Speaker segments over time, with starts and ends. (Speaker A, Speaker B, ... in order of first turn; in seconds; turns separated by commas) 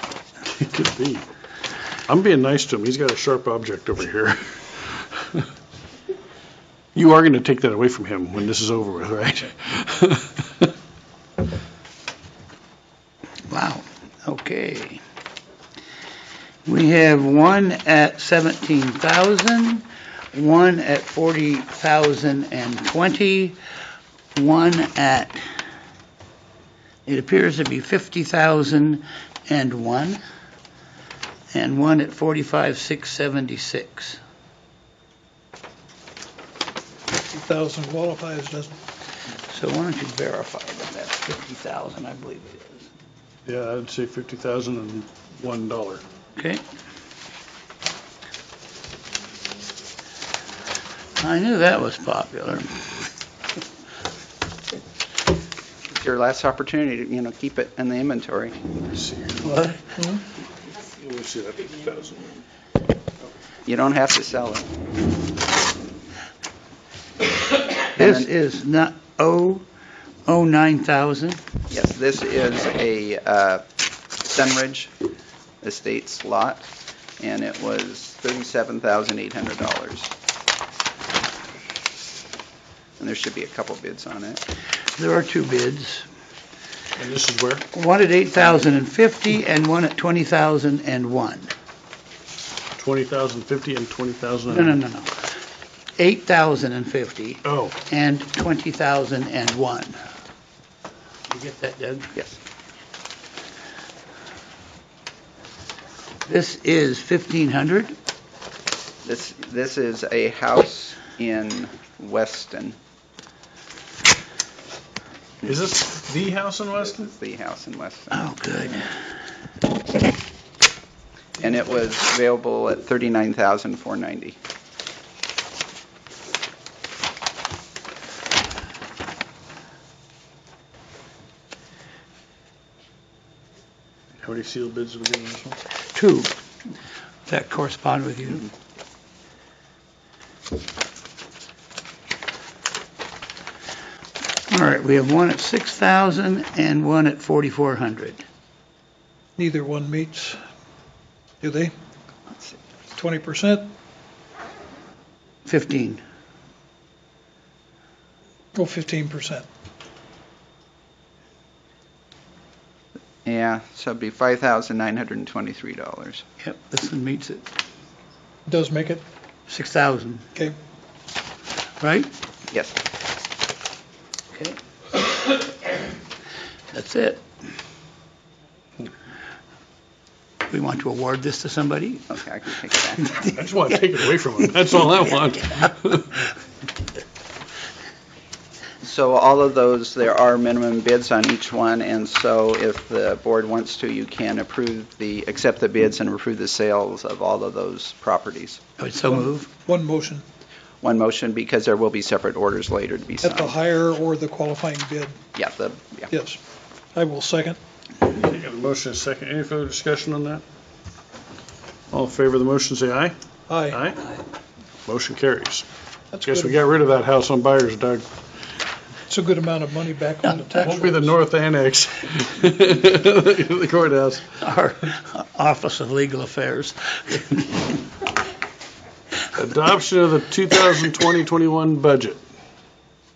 Speaker A: 0.5-1.2, Speaker A: 2.1-5.5, Speaker A: 6.9-10.7, Speaker B: 13.5-15.0, Speaker B: 16.6-23.6, Speaker B: 24.3-25.4, Speaker B: 27.1-30.2, Speaker B: 31.5-34.2, Speaker C: 37.3-38.7, Speaker B: 39.5-42.9, Speaker A: 43.5-46.0, Speaker B: 46.4-46.6, Speaker B: 51.2-52.8, Speaker D: 55.9-58.5, Speaker A: 58.9-59.8, Speaker A: 60.8-62.4, Speaker D: 63.6-64.7, Speaker D: 68.0-68.3, Speaker B: 68.0-69.6, Speaker B: 70.2-71.4, Speaker D: 71.7-73.6, Speaker D: 74.2-74.9, Speaker D: 75.6-76.7, Speaker D: 77.2-80.1, Speaker D: 83.0-84.4, Speaker B: 85.0-86.0, Speaker A: 87.0-87.7, Speaker B: 87.7-91.5, Speaker A: 92.8-94.7, Speaker B: 94.5-95.1, Speaker B: 96.0-100.0, Speaker A: 97.4-97.8, Speaker B: 101.3-102.1, Speaker B: 106.2-107.9, Speaker D: 109.0-112.8, Speaker A: 115.4-117.1, Speaker D: 116.9-118.2, Speaker B: 118.1-118.9, Speaker D: 121.4-124.4, Speaker A: 134.2-135.6, Speaker B: 135.9-136.3, Speaker B: 137.3-138.5, Speaker B: 144.5-148.2, Speaker C: 149.4-150.4, Speaker C: 151.4-151.7, Speaker D: 152.3-152.6, Speaker C: 152.9-153.7, Speaker B: 155.4-156.0, Speaker C: 158.5-159.4, Speaker D: 163.2-166.2, Speaker B: 166.4-167.4, Speaker C: 168.5-169.0, Speaker B: 169.5-170.2, Speaker B: 171.8-172.1, Speaker D: 172.5-172.8, Speaker B: 176.7-177.2, Speaker B: 180.5-182.1, Speaker D: 182.1-183.1, Speaker B: 183.1-183.3, Speaker A: 183.3-186.2, Speaker D: 188.8-198.6, Speaker B: 198.8-199.5, Speaker C: 199.1-200.2, Speaker D: 200.8-203.6, Speaker C: 203.2-205.2, Speaker D: 205.3-206.1, Speaker C: 206.1-206.4, Speaker C: 206.9-207.6, Speaker A: 208.0-210.4, Speaker A: 211.9-213.1, Speaker C: 213.5-213.8, Speaker A: 213.7-214.2, Speaker A: 214.8-215.6, Speaker C: 216.1-216.6, Speaker A: 216.2-218.1, Speaker C: 219.1-221.1, Speaker B: 220.2-220.5, Speaker A: 220.6-224.2, Speaker B: 224.4-227.8, Speaker A: 229.3-232.2